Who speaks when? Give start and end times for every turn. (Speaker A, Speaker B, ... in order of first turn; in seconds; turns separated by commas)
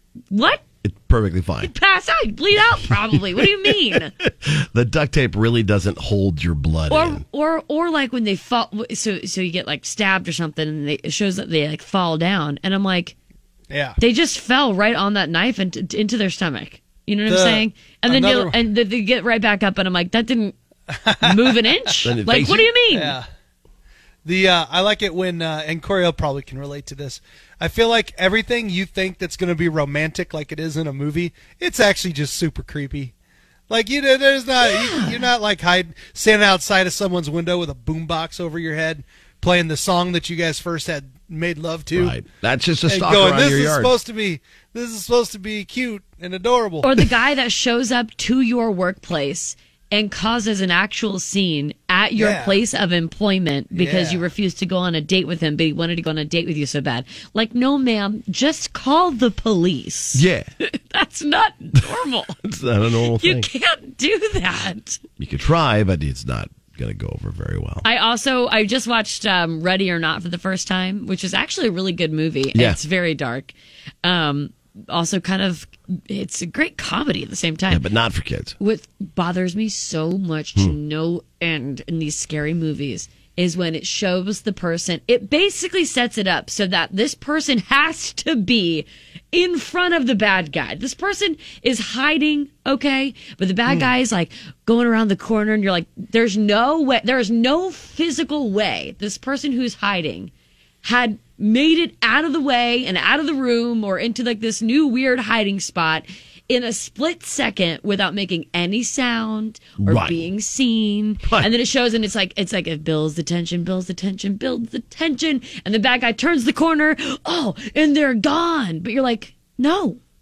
Speaker A: 0.3-0.6, Speaker B: 0.8-1.7, Speaker A: 1.6-4.1, Speaker B: 3.1-7.2, Speaker A: 6.9-13.2, Speaker C: 13.7-14.0, Speaker A: 14.0-20.6, Speaker C: 17.3-18.6, Speaker C: 20.9-21.9, Speaker A: 21.2-23.2, Speaker B: 22.0-22.7, Speaker C: 22.9-23.2, Speaker C: 24.2-33.1, Speaker C: 33.7-42.2, Speaker A: 34.6-35.2, Speaker B: 42.0-43.9, Speaker C: 42.9-47.0, Speaker A: 46.8-62.4, Speaker C: 52.2-52.6, Speaker C: 53.8-54.2, Speaker B: 60.1-60.5, Speaker B: 62.4-63.5, Speaker A: 63.2-65.0, Speaker B: 65.2-67.8, Speaker A: 67.8-77.8, Speaker B: 77.7-78.5, Speaker A: 78.6-100.3, Speaker A: 100.8-120.0, Speaker B: 109.8-110.2, Speaker B: 111.2-111.5